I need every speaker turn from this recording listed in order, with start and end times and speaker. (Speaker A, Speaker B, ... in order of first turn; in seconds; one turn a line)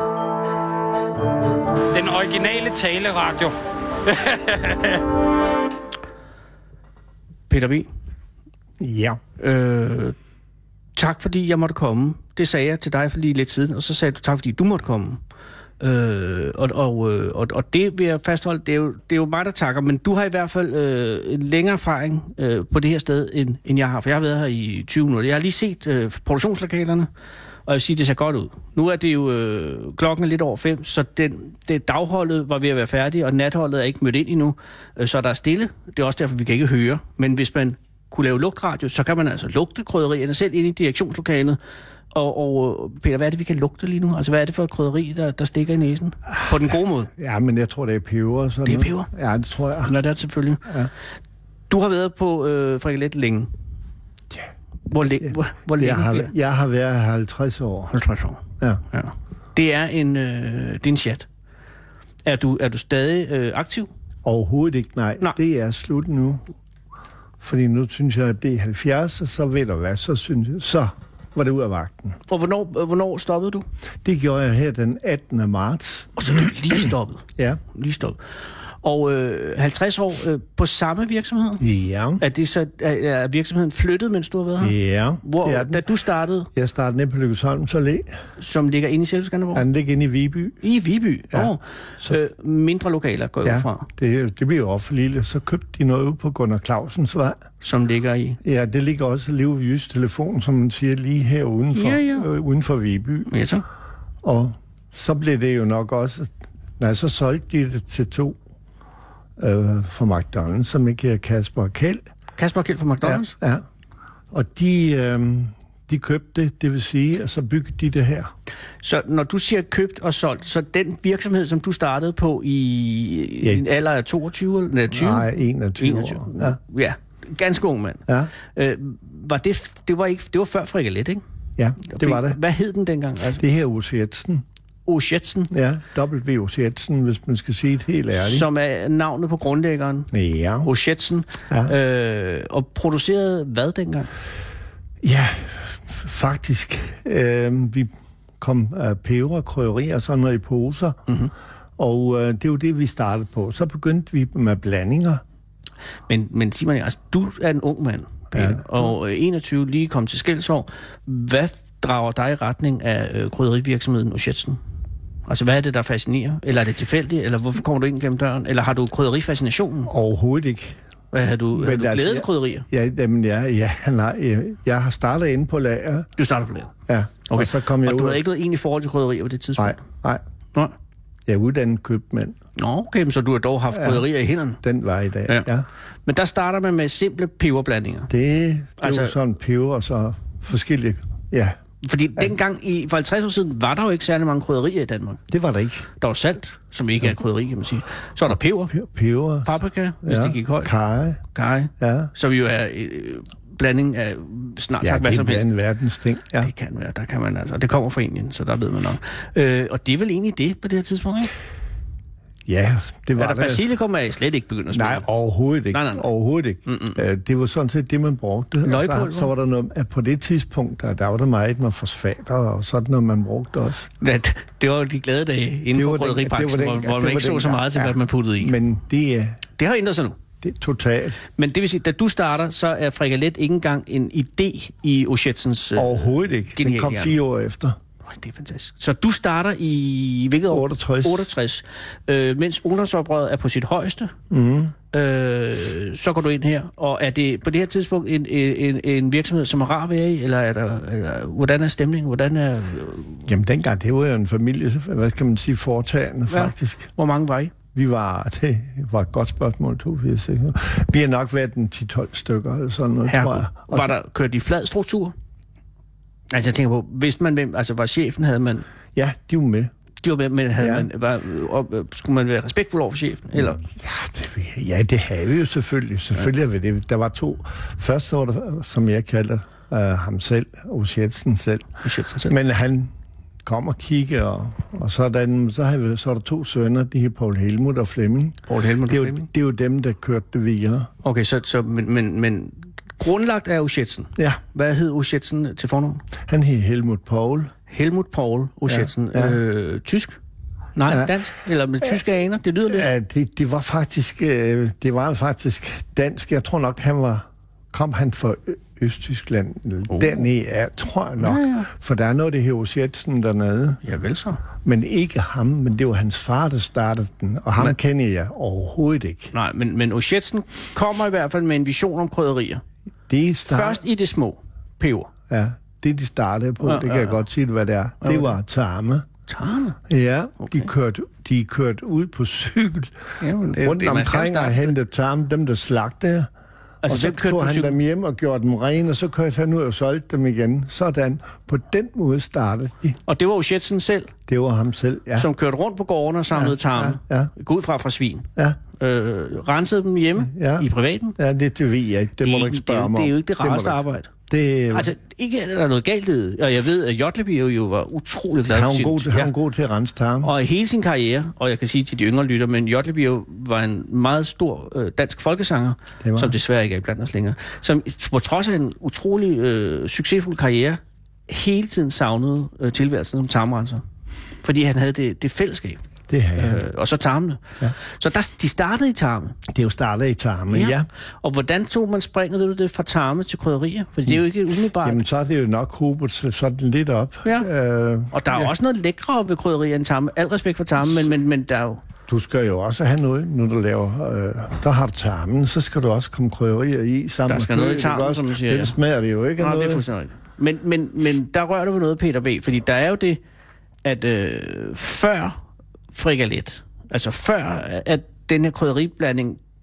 Speaker A: 1.9-3.5
Speaker A: 4.1-5.0
Speaker B: 7.5-7.9
Speaker C: 8.8-9.2
Speaker B: 9.4-10.2
Speaker B: 11.0-15.2
Speaker B: 15.8-27.1
Speaker B: 27.7-41.6
Speaker B: 42.1-47.1
Speaker C: 47.1-49.9
Speaker B: 48.6-49.1
Speaker B: 49.9-50.7
Speaker B: 51.7-53.5
Speaker B: 54.9-56.3
Speaker C: 55.2-57.9
Speaker B: 57.9-61.3
Speaker B: 62.2-63.9
Speaker C: 64.2-66.5
Speaker C: 67.4-72.2
Speaker B: 72.3-73.7
Speaker C: 74.0-76.8
Speaker B: 76.2-78.2
Speaker B: 78.8-81.6
Speaker C: 81.6-82.2
Speaker B: 82.2-86.5
Speaker C: 84.6-85.9
Speaker C: 86.5-88.1
Speaker B: 88.4-89.7
Speaker C: 89.5-90.6
Speaker B: 90.6-93.9
Speaker C: 91.3-92.2
Speaker C: 93.4-97.4
Speaker B: 97.6-98.4
Speaker C: 98.4-103.4
Speaker B: 101.8-102.3
Speaker B: 103.3-103.7
Speaker C: 104.2-108.4
Speaker C: 109.4-112.0
Speaker B: 112.4-113.4
Speaker C: 113.0-113.6
Speaker C: 114.3-118.3
Speaker B: 118.8-125.3
Speaker C: 124.9-126.6
Speaker B: 125.8-131.2
Speaker C: 131.6-132.4
Speaker B: 131.8-133.4
Speaker C: 133.4-134.4
Speaker B: 134.9-135.5
Speaker C: 135.5-138.5
Speaker B: 138.2-140.1
Speaker C: 140.1-140.7
Speaker B: 140.6-144.1
Speaker C: 145.0-151.0
Speaker C: 151.8-155.2
Speaker B: 156.1-164.6
Speaker C: 158.3-158.9
Speaker B: 165.3-169.9
Speaker C: 169.9-170.8
Speaker B: 171.1-172.7
Speaker C: 171.5-176.1
Speaker B: 176.2-176.7
Speaker C: 176.9-178.2
Speaker B: 177.3-179.8
Speaker C: 179.6-180.2
Speaker C: 181.3-182.4
Speaker B: 182.6-184.6
Speaker C: 183.7-184.1
Speaker C: 184.6-185.7
Speaker B: 186.1-188.1
Speaker C: 188.1-191.6
Speaker B: 188.8-189.2
Speaker B: 191.8-195.2
Speaker C: 195.3-195.9
Speaker B: 196.0-198.8
Speaker C: 198.3-201.2
Speaker B: 199.4-200.7
Speaker B: 201.3-205.5
Speaker C: 201.8-202.1
Speaker C: 204.8-206.5
Speaker B: 206.4-211.3
Speaker C: 212.5-213.7
Speaker B: 213.2-215.1
Speaker C: 214.7-223.9
Speaker B: 215.7-216.1
Speaker B: 216.7-217.0
Speaker B: 218.6-219.3
Speaker B: 224.0-228.6
Speaker C: 225.7-229.4
Speaker B: 229.6-230.2
Speaker C: 230.4-231.2
Speaker B: 231.4-237.2
Speaker C: 235.8-237.8
Speaker B: 238.1-244.1
Speaker C: 240.5-241.3
Speaker C: 244.3-244.7
Speaker B: 244.9-253.2
Speaker C: 253.2-256.9
Speaker B: 256.3-257.5
Speaker C: 257.7-263.9
Speaker B: 263.1-265.1
Speaker B: 266.3-268.6
Speaker C: 268.9-269.7
Speaker B: 270.0-273.6
Speaker C: 270.6-270.9
Speaker C: 273.3-281.7
Speaker B: 281.8-282.3
Speaker C: 282.3-282.9
Speaker C: 283.4-290.9
Speaker B: 288.5-289.3
Speaker B: 291.0-296.0
Speaker C: 296.3-297.5
Speaker B: 297.7-300.2
Speaker C: 298.7-299.4
Speaker B: 300.8-302.9
Speaker C: 300.9-301.1
Speaker C: 302.7-313.8
Speaker B: 309.9-310.2
Speaker B: 311.2-311.6
Speaker B: 313.8-314.4
Speaker C: 314.6-319.3
Speaker B: 319.3-322.6
Speaker C: 323.1-323.8
Speaker B: 323.5-325.1
Speaker C: 325.3-329.1
Speaker B: 326.6-327.2
Speaker B: 328.0-328.4
Speaker B: 329.3-329.8
Speaker C: 329.9-336.3
Speaker B: 330.4-330.7
Speaker B: 333.2-334.8
Speaker B: 336.8-337.8
Speaker C: 336.9-343.0
Speaker B: 343.1-344.1
Speaker C: 344.3-345.3
Speaker B: 345.2-351.2
Speaker C: 346.3-347.3
Speaker C: 350.2-354.9
Speaker B: 352.2-354.1
Speaker B: 354.7-359.3
Speaker C: 358.5-360.3
Speaker B: 360.2-373.8
Speaker C: 366.0-366.4
Speaker B: 374.4-375.8
Speaker C: 376.1-376.6
Speaker B: 376.4-379.4
Speaker C: 379.5-380.9
Speaker B: 380.5-385.0
Speaker C: 384.8-388.5
Speaker B: 388.1-391.8
Speaker C: 392.1-399.8
Speaker B: 397.3-398.8
Speaker B: 399.4-403.2
Speaker B: 403.8-405.4
Speaker B: 405.9-409.4